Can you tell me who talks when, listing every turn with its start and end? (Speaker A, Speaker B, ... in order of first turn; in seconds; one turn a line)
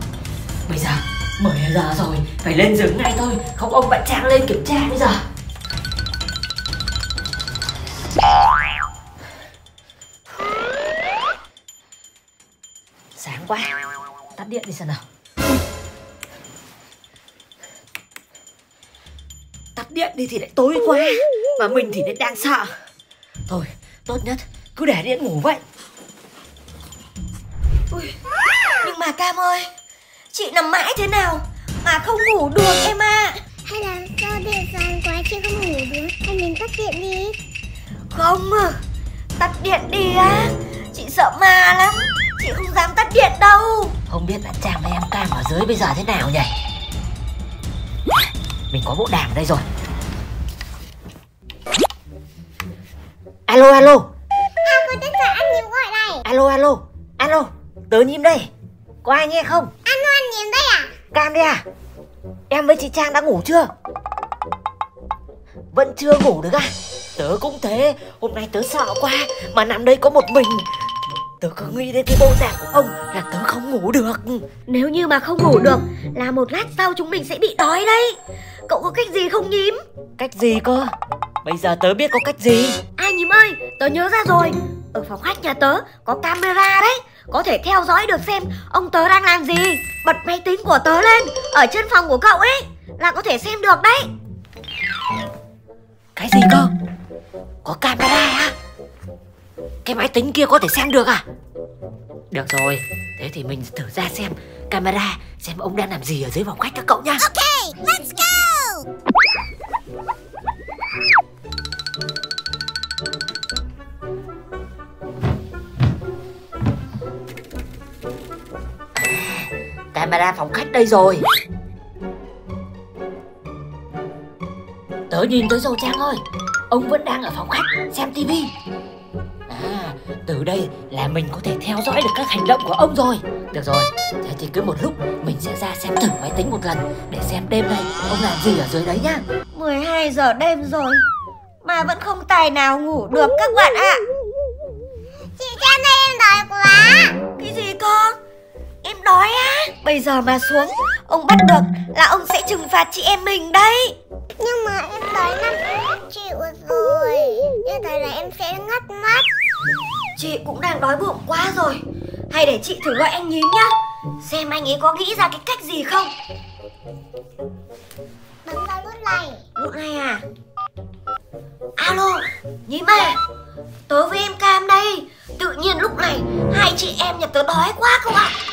Speaker A: 0.7-5.2
Speaker A: 13.2-13.7
Speaker A: 14.4-15.0
Speaker A: 19.8-22.7
Speaker A: 23.5-25.6
Speaker B: 28.8-29.7
Speaker B: 30.3-33.4
Speaker C: 33.6-37.4
Speaker B: 38.1-38.8
Speaker B: 39.4-43.9
Speaker A: 44.1-46.5
Speaker A: 48.2-49.6
Speaker A: 53.5-54.1
Speaker C: 54.6-56.2
Speaker A: 56.2-58.5
Speaker A: 59.0-59.7
Speaker C: 59.9-60.9
Speaker A: 61.1-61.6
Speaker A: 62.5-63.7
Speaker A: 65.7-70.7
Speaker A: 71.4-74.5
Speaker B: 74.7-78.2
Speaker B: 78.7-79.8
Speaker A: 80.2-80.9
Speaker A: 81.4-82.8
Speaker B: 83.0-94.1
Speaker A: 96.2-96.7
Speaker A: 97.6-98.5
Speaker A: 99.8-101.2
Speaker A: 102.3-107.3
Speaker C: 107.2-108.8
Speaker A: 118.9-121.3
Speaker A: 125.1-128.5
Speaker A: 129.5-139.2
Speaker B: 139.5-141.0
Speaker B: 141.6-144.0
Speaker C: 145.4-147.2
Speaker B: 147.4-148.2
Speaker B: 148.8-153.9
Speaker C: 154.4-159.3
Speaker B: 160.2-166.1
Speaker C: 168.4-169.4
Speaker B: 169.6-170.2
Speaker B: 171.8-173.2
Speaker B: 173.9-178.3